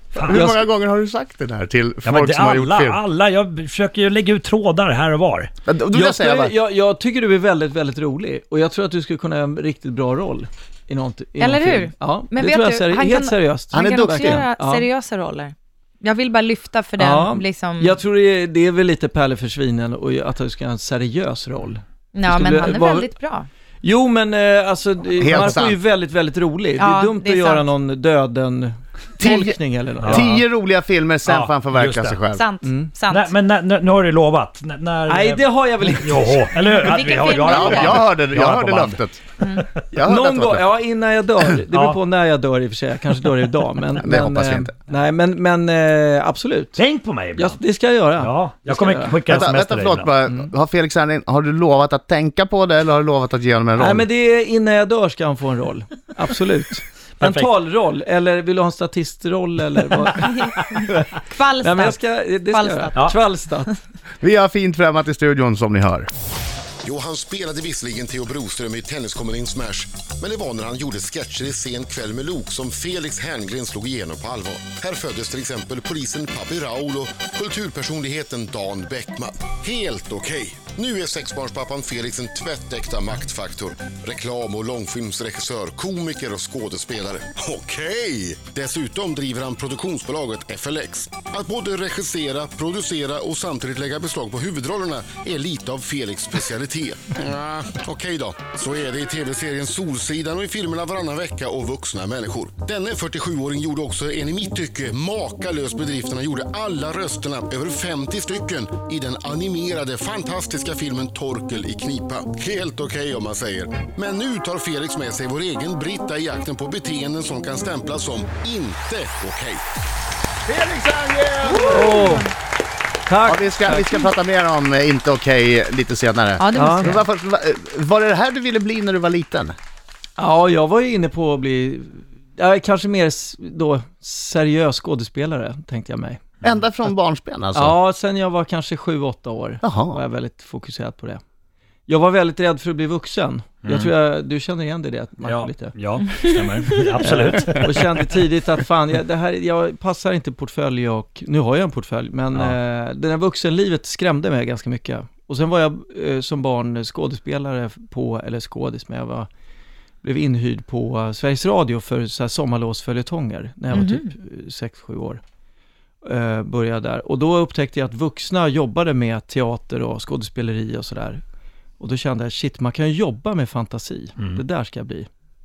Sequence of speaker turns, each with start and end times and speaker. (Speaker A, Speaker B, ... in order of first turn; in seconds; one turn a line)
Speaker A: 0.1-0.6
Speaker B: 0.2-3.0
Speaker A: 2.0-5.5
Speaker B: 5.7-6.5
Speaker C: 5.9-14.9
Speaker D: 11.4-18.0
Speaker B: 13.7-14.5
Speaker C: 17.0-23.1
Speaker D: 22.1-23.5
Speaker C: 23.8-30.4
Speaker B: 25.2-25.8
Speaker D: 26.8-27.7
Speaker B: 29.2-32.4
Speaker A: 31.3-32.2
Speaker D: 32.3-33.3
Speaker C: 32.6-32.9
Speaker A: 33.1-39.0
Speaker C: 35.1-36.5
Speaker D: 36.7-38.0
Speaker B: 37.4-39.2
Speaker D: 39.4-39.7
Speaker B: 39.8-40.7
Speaker C: 40.0-46.8
Speaker A: 41.7-42.0
Speaker B: 44.0-44.7
Speaker A: 46.8-47.6
Speaker C: 47.4-49.2
Speaker A: 48.2-50.1
Speaker B: 49.3-54.1
Speaker C: 53.8-63.8
Speaker A: 57.2-57.5
Speaker D: 60.0-63.0
Speaker B: 64.2-66.1
Speaker E: 66.8-119.6
Speaker B: 120.5-122.1
Speaker D: 121.5-122.3
Speaker C: 121.7-122.3
Speaker C: 123.1-124.1
Speaker B: 123.2-129.6
Speaker D: 126.4-127.0
Speaker C: 126.5-127.0
Speaker C: 130.2-136.2
Speaker B: 136.4-137.8
Speaker C: 137.6-141.2
Speaker B: 139.6-140.0
Speaker C: 141.9-145.8
Speaker A: 143.6-143.9
Speaker A: 145.2-147.9
Speaker D: 146.1-146.9
Speaker C: 147.0-159.3
Speaker C: 160.0-165.2
Speaker D: 163.7-164.1
Speaker C: 166.0-171.2
Speaker C: 171.8-175.1